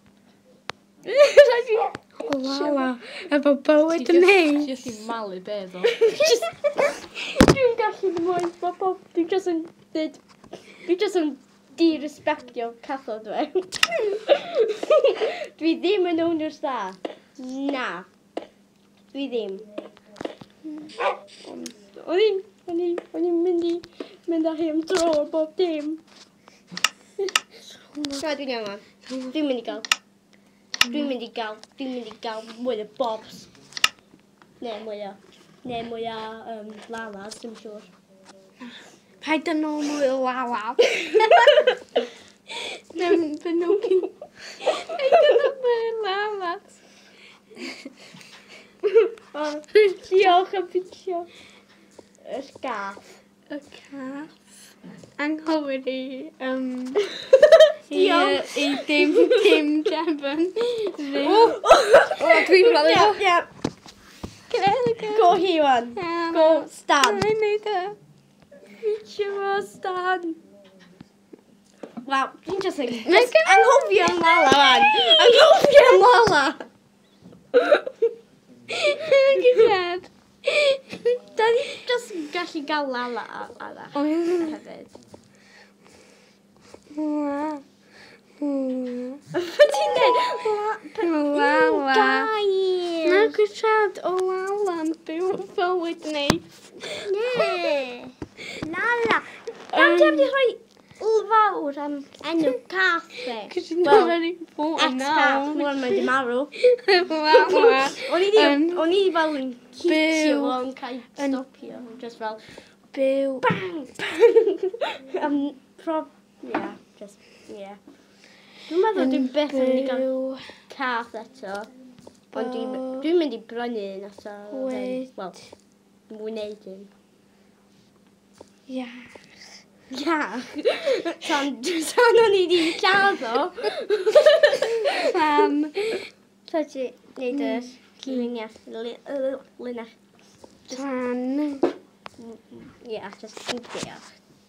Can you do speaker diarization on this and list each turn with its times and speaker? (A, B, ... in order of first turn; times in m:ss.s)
0:01.0-0:03.0 A
0:02.3-0:04.7 B
0:03.9-0:06.0 C
0:06.0-0:18.1 A
0:19.1-0:19.7 A
0:21.4-0:26.0 A
0:27.6-0:28.2 B
0:28.2-0:29.9 A
0:29.1-0:29.3 B
0:30.9-0:33.5 A
0:34.6-0:37.9 A
0:38.6-0:41.3 B
0:42.9-0:46.8 B
0:49.0-0:51.3 A
0:52.2-0:53.2 A
0:53.5-0:54.4 B
0:55.2-0:57.1 B
0:57.6-0:59.4 A
0:57.9-1:01.6 B
1:01.2-1:03.5 A
1:02.2-1:03.2 B
1:04.5-1:05.3 B
1:05.1-1:07.3 A
1:06.0-1:08.0 B
1:08.7-1:10.4 A
1:12.0-1:16.7 A
1:13.1-1:15.0 B
1:18.7-1:21.2 B
1:21.3-1:24.9 A
1:24.0-1:24.6 B
1:26.9-1:27.6 B
1:28.4-1:29.2 B
1:29.4-1:33.4 A
1:29.7-1:30.2 B
1:31.0-1:32.3 B
1:33.0-1:36.9 B
1:37.0-1:44.2 A
1:39.7-1:40.3 B
1:43.5-1:46.0 B
1:44.8-1:46.5 A
1:46.6-1:48.8 B
1:47.3-1:52.7 A
1:49.9-1:50.6 B
1:52.9-1:53.5 B
1:53.4-1:57.8 A
1:58.5-2:00.1 A
1:59.0-2:00.4 B
2:00.7-2:01.7 A
2:02.3-2:06.9 A
2:02.3-2:03.1 B
2:04.5-2:05.1 B
2:08.7-2:09.6 B
2:09.9-2:14.9 A
2:15.0-2:16.1 B
2:16.5-2:20.0 A
2:17.3-2:18.3 B
2:20.6-2:20.9 A
2:20.7-2:21.7 B
2:22.2-2:24.2 A